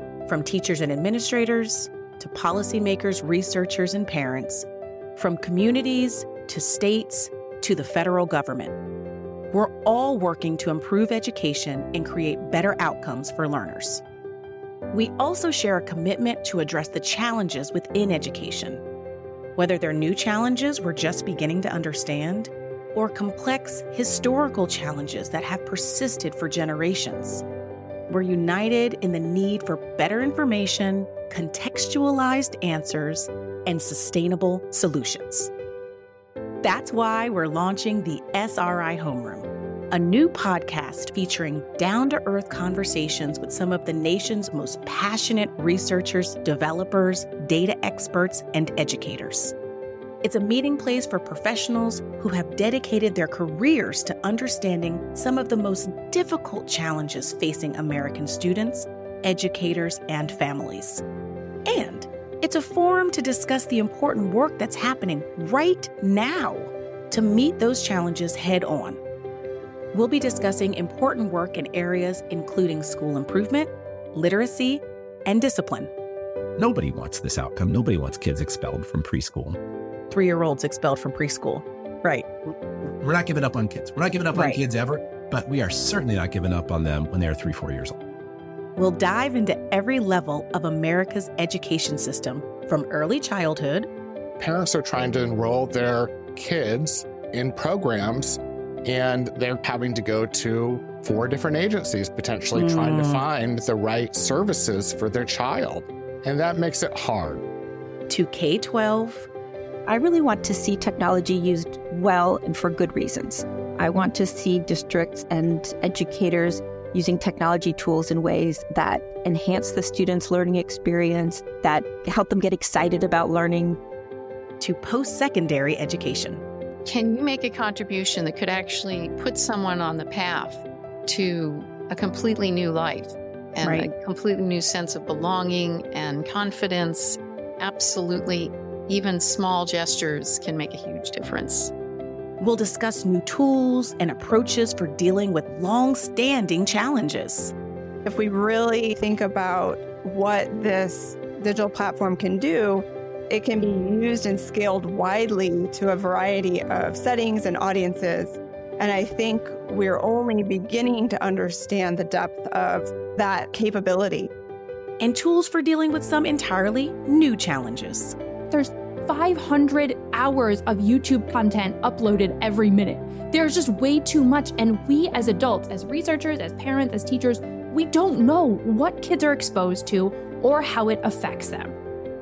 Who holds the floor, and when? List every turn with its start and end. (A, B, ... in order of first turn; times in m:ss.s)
0:00.3-0:08.7 A
0:09.5-0:14.0 A
0:14.9-0:18.8 A
0:19.6-0:27.4 A
0:28.1-0:35.5 A
0:36.6-0:49.6 A
0:50.2-1:01.0 A
1:01.7-1:09.0 A
1:09.9-1:15.9 A
1:16.6-1:19.6 B
1:20.1-1:22.3 A
1:23.0-1:28.0 B
1:24.3-1:24.6 A
1:28.8-1:33.9 A
1:34.4-1:47.4 C
1:42.6-1:43.2 A
1:48.1-1:49.3 A
1:49.9-2:03.8 D
2:04.6-2:06.4 A
2:06.8-2:21.7 E
2:13.6-2:13.9 A
2:22.4-2:27.5 A
2:28.0-2:44.3 F
2:45.0-2:48.2 A
2:48.5-3:01.7 G